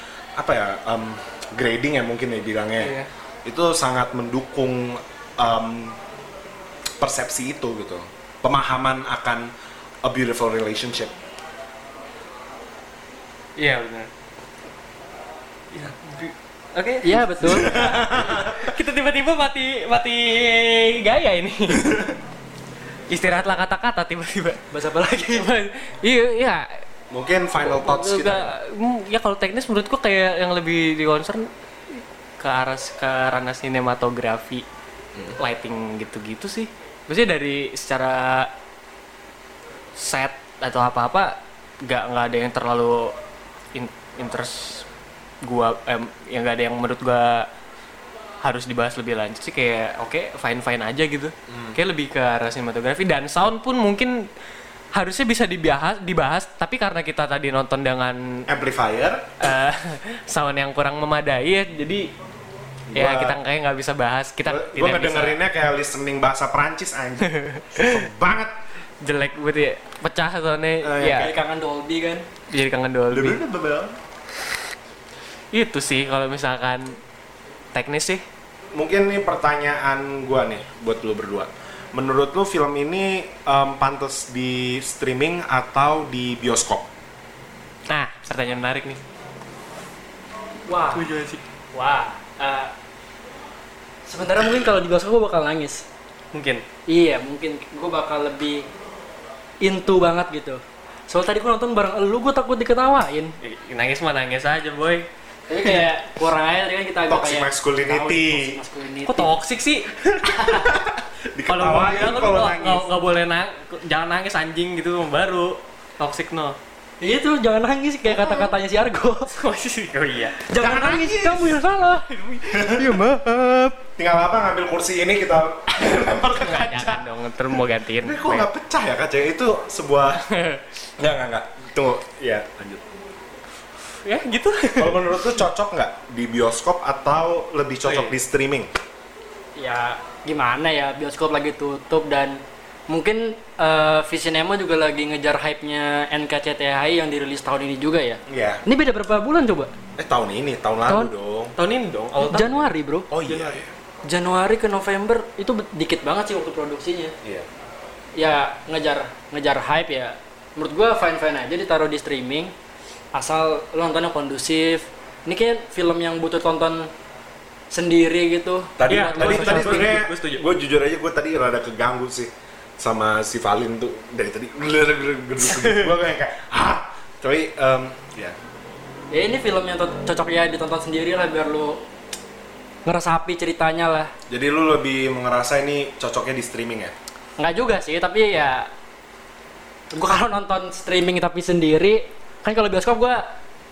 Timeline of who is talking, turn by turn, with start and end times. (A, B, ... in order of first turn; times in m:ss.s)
0:00.4-0:06.0 A
0:02.8-0:03.1 B
0:07.0-0:09.5 A
0:10.0-0:11.1 A
0:13.6-0:14.1 B
0:15.7-0:22.0 B
0:17.0-0:17.8 C
0:17.4-0:18.7 A
0:21.8-0:22.1 A
0:23.1-0:26.8 B
0:24.7-0:25.5 C
0:27.1-0:28.5 A
0:27.6-0:34.6 B
0:35.4-0:38.5 B
0:40.0-0:43.1 B
0:43.7-0:44.8 B
0:45.4-0:47.5 B
0:48.4-0:54.3 B
0:51.5-0:51.8 A
0:54.9-0:58.4 B
0:58.5-0:59.5 A
0:59.4-1:02.1 B
1:02.9-1:03.4 A
1:02.9-1:05.4 B
1:04.4-1:08.6 A
1:07.3-1:08.0 B
1:09.0-1:11.3 B
1:10.8-1:11.3 A
1:11.0-1:12.2 C
1:12.5-1:13.4 B
1:13.1-1:14.0 A
1:15.5-1:17.0 B
1:17.7-1:18.2 B
1:18.7-1:26.9 A
1:27.9-1:29.0 B
1:30.7-1:31.1 C
1:30.9-1:31.4 B
1:31.7-1:32.7 C
1:34.0-1:35.8 C
1:36.3-1:36.6 B
1:36.9-1:38.6 C
1:39.6-1:43.4 C
1:43.4-1:45.1 B
1:45.5-1:49.3 C
1:47.1-1:48.6 A
1:49.0-1:49.9 B
1:50.0-1:52.8 A
1:51.5-1:56.6 B
1:57.0-1:59.3 C
1:58.1-1:58.5 B
1:59.3-2:00.4 B
2:00.4-2:02.1 C
2:00.6-2:01.6 A
2:02.1-2:02.7 B
2:02.4-2:03.0 A
2:02.7-2:03.8 C
2:04.0-2:07.0 A
2:06.4-2:08.5 B
2:08.0-2:10.2 A
2:10.3-2:10.6 B
2:11.0-2:12.8 A
2:14.0-2:15.3 B
2:14.8-2:18.7 A
2:17.8-2:18.2 B
2:19.6-2:29.7 C
2:28.3-2:28.6 A
2:30.0-2:31.6 A
2:30.9-2:31.1 C
2:31.6-2:32.7 B
2:32.2-2:33.1 C
2:33.1-2:33.7 A
2:33.2-2:33.6 B
2:34.1-2:37.1 C
2:38.2-2:42.5 C
2:43.1-2:46.9 C
2:47.7-2:50.0 C
2:48.8-2:58.4 A
2:48.9-2:50.4 B
2:55.4-2:55.9 B
2:59.1-3:01.8 C
3:02.8-3:04.1 C
3:04.3-3:06.9 A
3:07.4-3:08.7 C
3:09.9-3:13.3 C